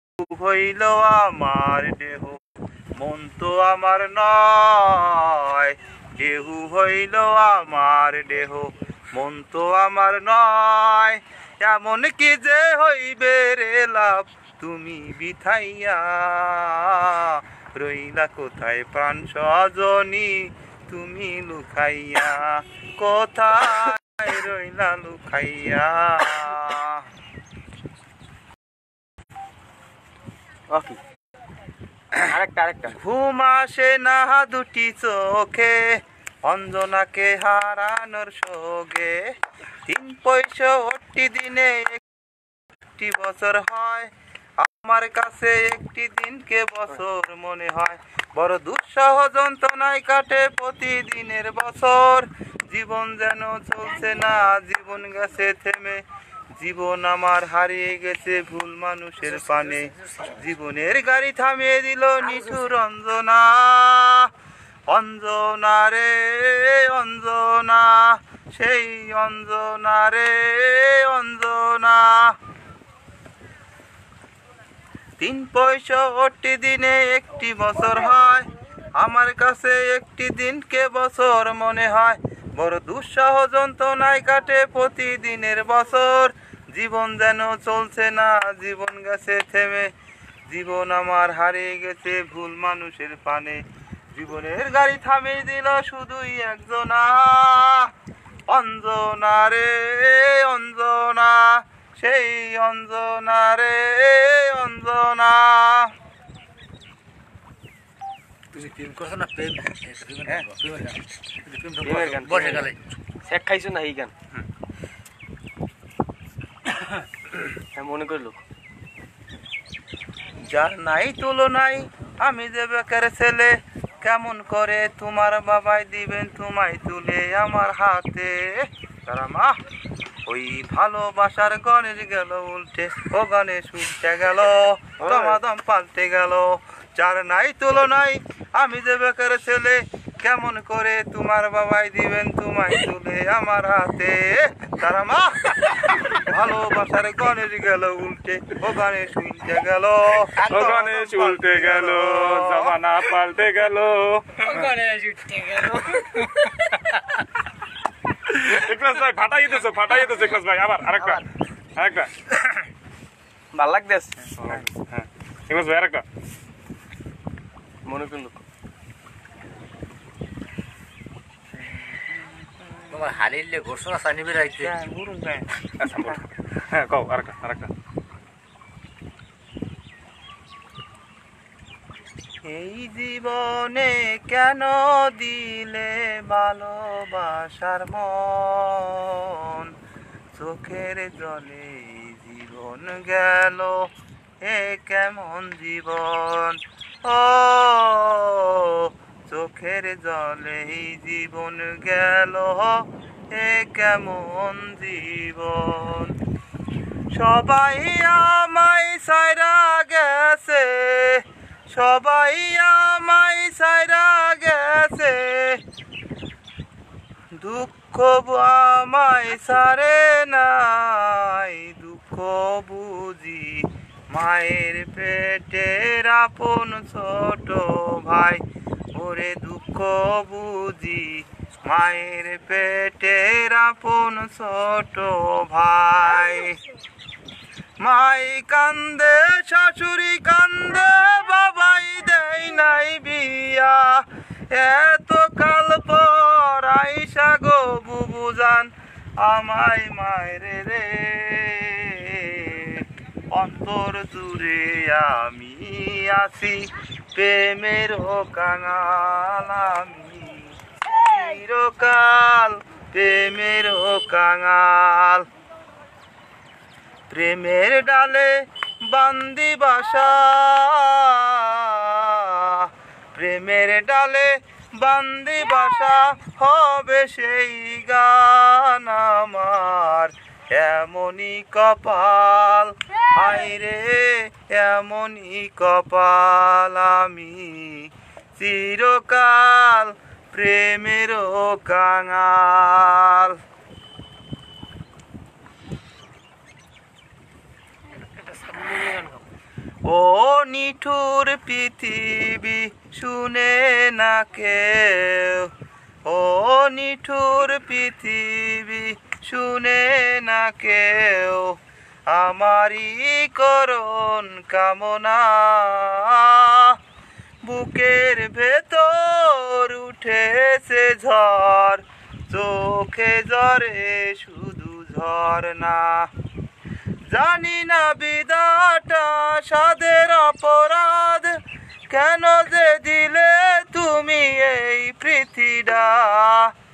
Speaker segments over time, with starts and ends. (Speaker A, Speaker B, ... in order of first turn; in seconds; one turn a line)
Speaker A: 0.2-2.4
Speaker A: 3.0-27.1
Speaker B: 30.7-31.0
Speaker B: 32.2-32.9
Speaker A: 33.0-39.3
Speaker A: 39.9-42.0
Speaker A: 43.0-56.0
Speaker A: 56.5-64.3
Speaker C: 59.5-59.9
Speaker A: 64.9-72.4
Speaker A: 75.2-89.9
Speaker A: 90.5-97.9
Speaker A: 98.5-105.9
Speaker C: 108.5-112.8
Speaker B: 111.8-112.7
Speaker B: 113.2-114.1
Speaker B: 117.7-118.4
Speaker A: 120.5-129.6
Speaker A: 130.3-152.8
Speaker B: 135.0-135.3
Speaker D: 150.5-154.8
Speaker C: 154.5-157.2
Speaker B: 155.4-156.0
Speaker D: 158.3-161.2
Speaker B: 161.0-161.2
Speaker D: 161.8-162.5
Speaker B: 163.5-164.4
Speaker D: 164.4-166.0
Speaker B: 167.8-168.4
Speaker A: 171.9-173.0
Speaker C: 172.9-174.7
Speaker A: 174.6-175.5
Speaker D: 175.8-177.7
Speaker A: 182.4-189.7
Speaker A: 190.3-193.9
Speaker A: 194.4-206.2
Speaker A: 207.1-215.6
Speaker A: 217.4-228.4
Speaker A: 228.9-236.6
Speaker A: 237.8-265.3
Speaker A: 267.1-293.4
Speaker B: 298.7-299.0
Speaker A: 299.8-305.5
Speaker A: 306.1-311.6
Speaker A: 312.1-316.8
Speaker A: 317.4-326.1
Speaker A: 327.1-331.3
Speaker A: 331.9-336.5